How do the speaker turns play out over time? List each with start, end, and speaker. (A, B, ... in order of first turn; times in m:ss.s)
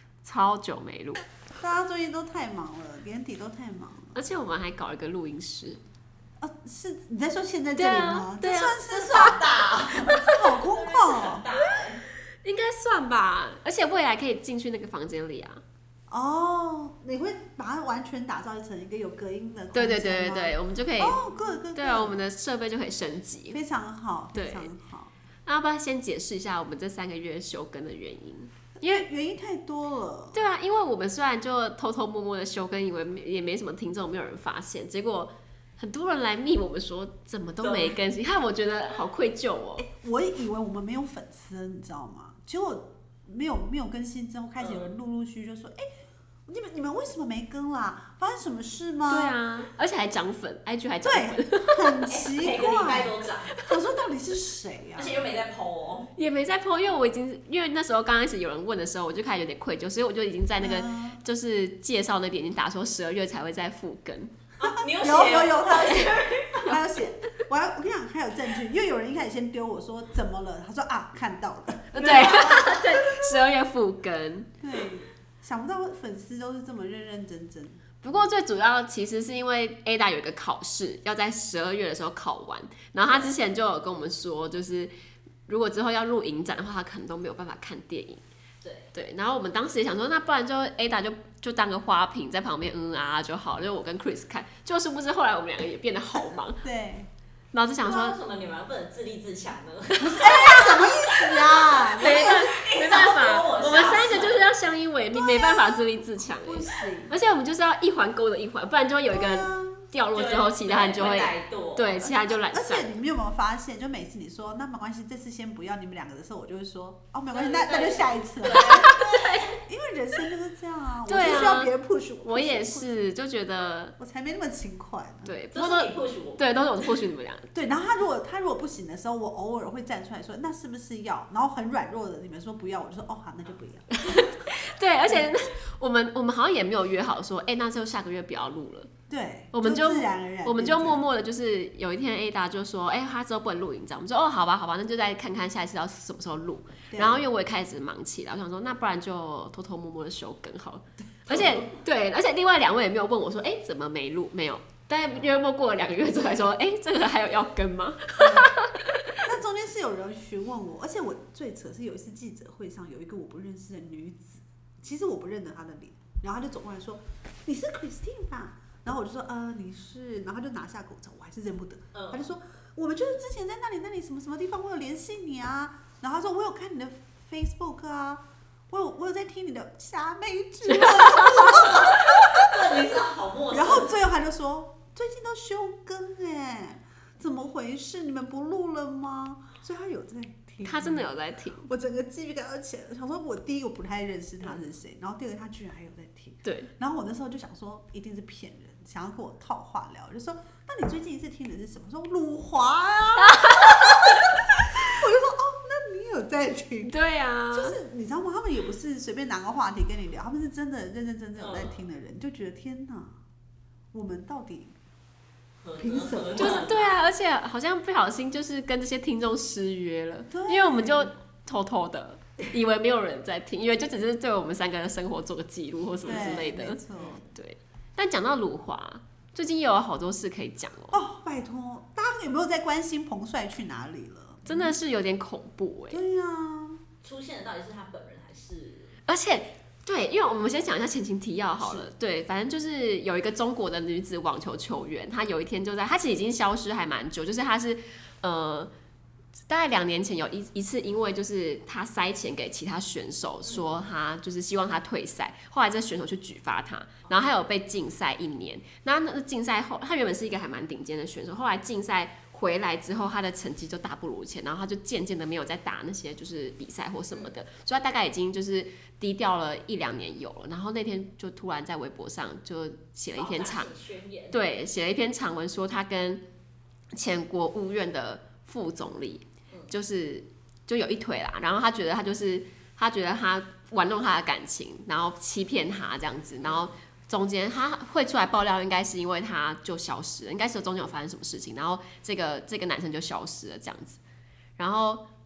0:00.2-0:01.2 A
0:01.6-0:04.2 B
0:04.1-0:05.8 A
0:06.4-0:09.4 B
0:07.8-0:09.4 A
0:08.8-0:12.0 C
0:10.1-0:10.3 A
0:10.1-0:11.5 B
0:12.4-0:15.6 A
0:16.1-0:22.2 B
0:19.7-0:21.2 A
0:21.7-0:23.6 A
0:23.5-0:25.1 B
0:24.3-0:24.7 A
0:25.5-0:29.0 A
0:28.8-0:30.4 B
0:30.3-0:39.9 A
0:37.6-0:38.0 C
0:39.8-0:45.9 B
0:44.6-0:44.9 C
0:46.5-0:49.4 B
0:49.1-0:52.1 A
0:51.0-0:55.2 B
0:52.1-0:53.6 C
0:55.0-0:56.1 C
0:56.2-1:04.4 A
1:00.6-1:01.2 B
1:04.6-1:06.8 C
1:04.6-1:13.4 B
1:11.9-1:14.5 A
1:14.6-1:17.9 B
1:18.0-1:24.9 A
1:25.5-1:28.2 A
1:28.6-1:28.9 C
1:28.9-1:36.6 A
1:36.6-1:37.1 B
1:37.5-1:38.2 A
1:37.8-1:40.8 C
1:40.0-1:42.5 B
1:40.1-1:53.0 A
1:41.8-1:44.5 C
1:45.1-1:47.1 B
1:49.1-1:49.9 B
1:50.1-1:52.0 C
1:52.0-1:59.0 B
1:57.3-1:59.6 C
1:58.5-1:59.6 A
1:59.6-2:03.1 B
2:01.1-2:01.7 A
2:02.2-2:04.0 A
2:04.0-2:05.3 B
2:05.2-2:07.5 A
2:05.5-2:07.0 C
2:07.5-2:14.0 B
2:13.9-2:18.9 A
2:19.1-2:21.0 B
2:19.5-2:39.2 A
2:26.9-2:27.2 B
2:31.3-2:31.7 B
2:38.2-2:38.5 B
2:39.2-3:02.9 B
2:51.9-2:52.3 C
3:00.8-3:01.5 A
3:01.6-3:04.0 C
3:03.5-3:11.1 B
3:10.6-3:11.7 A
3:11.6-3:27.0 B
3:16.4-3:16.7 A
3:23.3-3:23.9 A
3:26.9-3:27.8 A
3:27.5-3:33.2 B
3:31.4-3:31.8 C
3:33.9-3:34.8 B
3:35.6-3:37.0 C
3:35.8-3:36.7 B
3:36.4-3:51.0 A
3:40.3-3:41.1 B
3:46.0-3:47.2 B
3:47.0-3:47.3 C
3:50.9-3:54.7 B
3:54.5-3:56.0 A
3:55.9-3:56.8 B
3:57.0-3:59.0 C
3:59.1-4:08.7 A
4:09.5-4:33.7 A
4:13.4-4:13.7 C
4:33.1-4:34.4 C
4:34.3-4:36.2 A
4:36.9-4:54.0 A
4:54.6-4:55.0 A